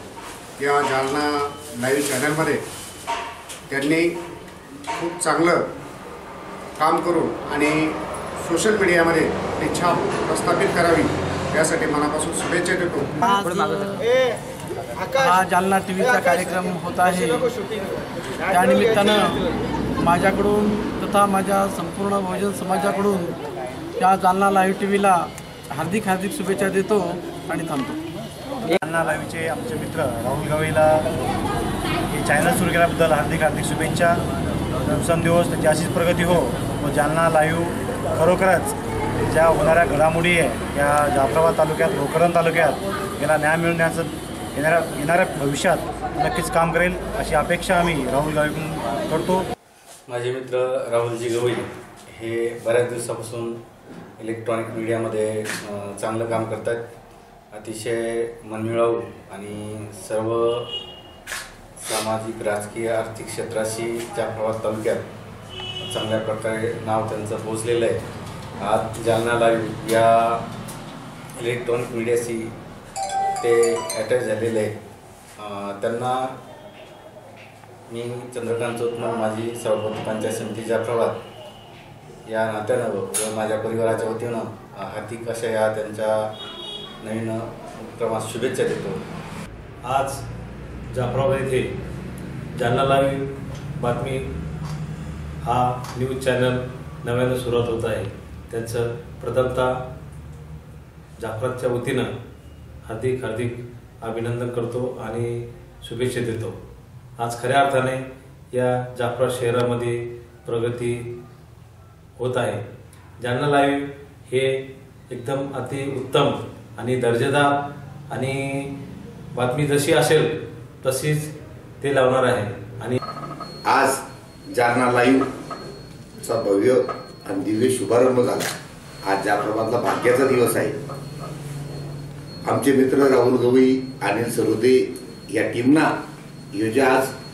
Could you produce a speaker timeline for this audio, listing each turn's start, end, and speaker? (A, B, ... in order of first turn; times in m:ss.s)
0:00.6-0:02.6 A
0:03.7-0:04.2 A
0:05.0-0:05.6 A
0:06.8-0:13.1 A
0:13.2-0:14.0 B
0:15.1-0:17.5 B
0:18.5-0:19.4 B
0:20.0-0:23.4 B
0:24.0-0:28.0 B
0:28.8-0:31.1 C
0:32.1-0:34.2 C
0:34.9-0:49.4 C
0:50.1-0:53.6 D
0:54.2-0:56.9 D
0:57.5-1:00.7 D
1:01.8-1:05.1 D
1:05.8-1:08.0 D
1:08.6-1:10.5 D
1:11.4-1:12.5 D
1:13.4-1:14.8 D
1:15.4-1:16.4 D
1:17.9-1:21.2 D
1:22.2-1:26.3 D
1:27.0-1:29.0 D
1:29.8-1:30.2 E
1:30.9-1:31.7 E
1:32.5-1:34.3 E
1:35.4-1:39.8 E
1:41.2-1:42.1 E
1:42.9-1:46.6 E
1:47.2-1:48.0 E
1:48.5-1:51.2 E
1:52.2-1:52.6 E
1:53.2-1:58.8 E
1:59.4-2:03.0 E
2:03.7-2:04.0 F
2:04.5-2:05.3 F
2:06.2-2:08.5 F
2:09.0-2:10.8 F
2:12.5-2:16.0 F
2:16.5-2:17.1 F